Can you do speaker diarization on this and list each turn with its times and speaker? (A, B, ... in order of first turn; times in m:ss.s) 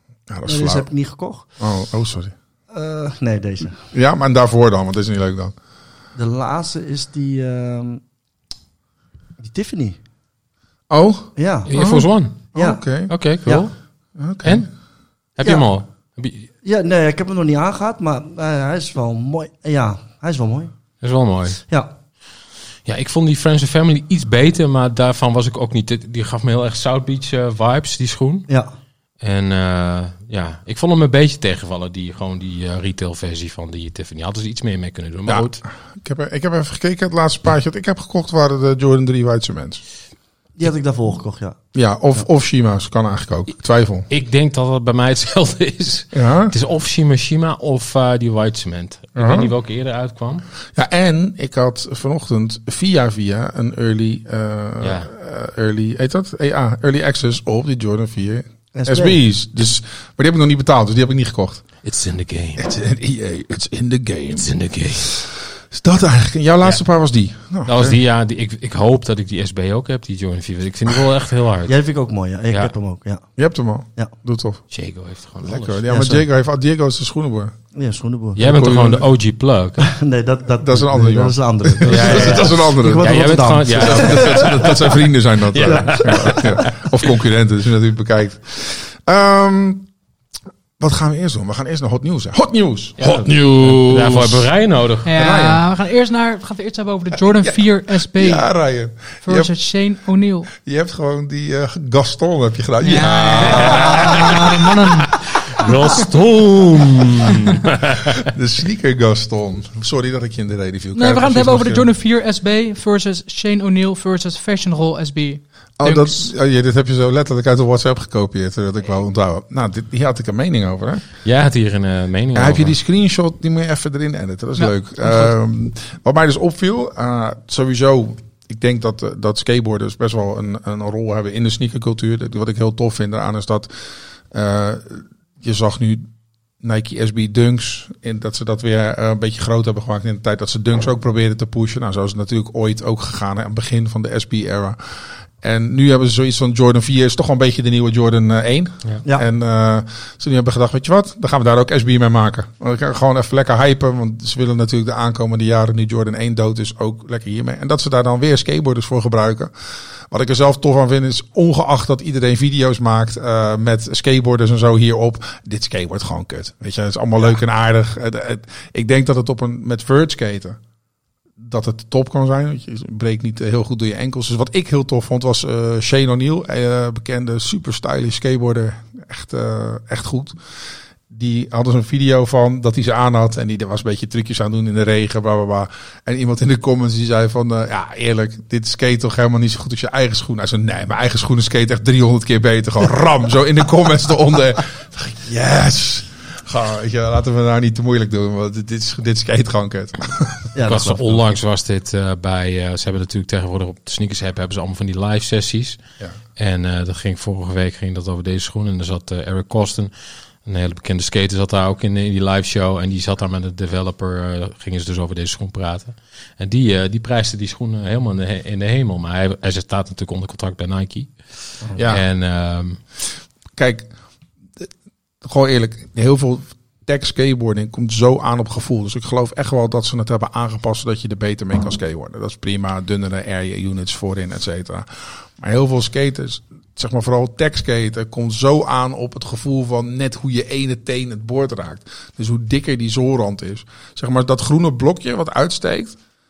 0:00.3-0:00.9 A
0:00.4-0:01.5 B
0:01.6-0:02.3 A
0:02.7-0:03.8 B
0:03.9-0:05.5 A
0:06.1-0:08.0 B
0:09.4-0:10.0 B
0:10.9-0:13.1 A
0:11.4-0:11.7 B
0:11.7-0:12.5 C
0:12.5-0:12.8 B
0:13.1-0:13.7 C
0:14.2-0:14.7 A
0:14.4-0:14.7 C
0:15.4-0:16.5 C
0:16.6-0:20.7 B
0:21.0-0:21.6 C
0:21.7-0:21.9 B
0:22.8-0:28.5 C
0:29.2-0:35.6 C
0:35.3-0:39.8 A
0:40.6-0:41.6 B
0:41.7-0:44.1 A
0:44.1-0:50.4 C
0:46.1-0:46.5 A
0:49.2-0:49.5 A
0:50.7-1:01.6 A
0:54.8-0:55.1 C
0:58.7-0:59.2 B
1:01.8-1:02.6 C
1:02.6-1:08.0 A
1:04.3-1:05.1 C
1:07.6-1:11.7 C
1:11.6-1:13.2 B
1:13.4-1:14.6 A
1:14.7-1:15.8 C
1:15.4-1:17.5 A
1:15.9-1:16.2 B
1:17.7-1:18.4 B
1:18.4-1:19.9 C
1:18.4-1:19.0 A
1:19.8-1:24.7 B
1:20.6-1:29.9 A
1:21.8-1:26.9 C
1:25.6-1:26.6 B
1:30.8-1:34.5 A
1:33.0-1:35.4 C
1:35.0-1:38.5 D
1:35.1-1:35.6 A
1:37.3-1:37.6 A
1:38.1-1:39.5 A
1:39.2-1:40.5 D
1:40.6-1:45.0 A
1:42.8-1:46.0 D
1:43.4-1:44.3 C
1:45.5-1:48.3 C
1:47.9-1:51.9 A
1:50.9-1:56.3 D
1:55.8-2:01.0 A
2:01.2-2:02.7 C
2:02.3-2:13.7 A
2:14.3-2:16.1 A
2:16.6-2:24.8 A
2:25.4-2:39.5 A
2:40.1-2:50.6 A
2:51.4-3:00.4 A
3:01.1-3:20.5 A
3:20.5-3:21.2 B
3:20.6-3:25.8 C
3:26.4-3:29.9 C
3:30.4-3:41.2 C
3:41.8-3:42.0 A
3:41.9-3:42.8 C
3:43.6-3:43.9 A
3:45.2-3:54.9 A
3:55.4-4:06.0 A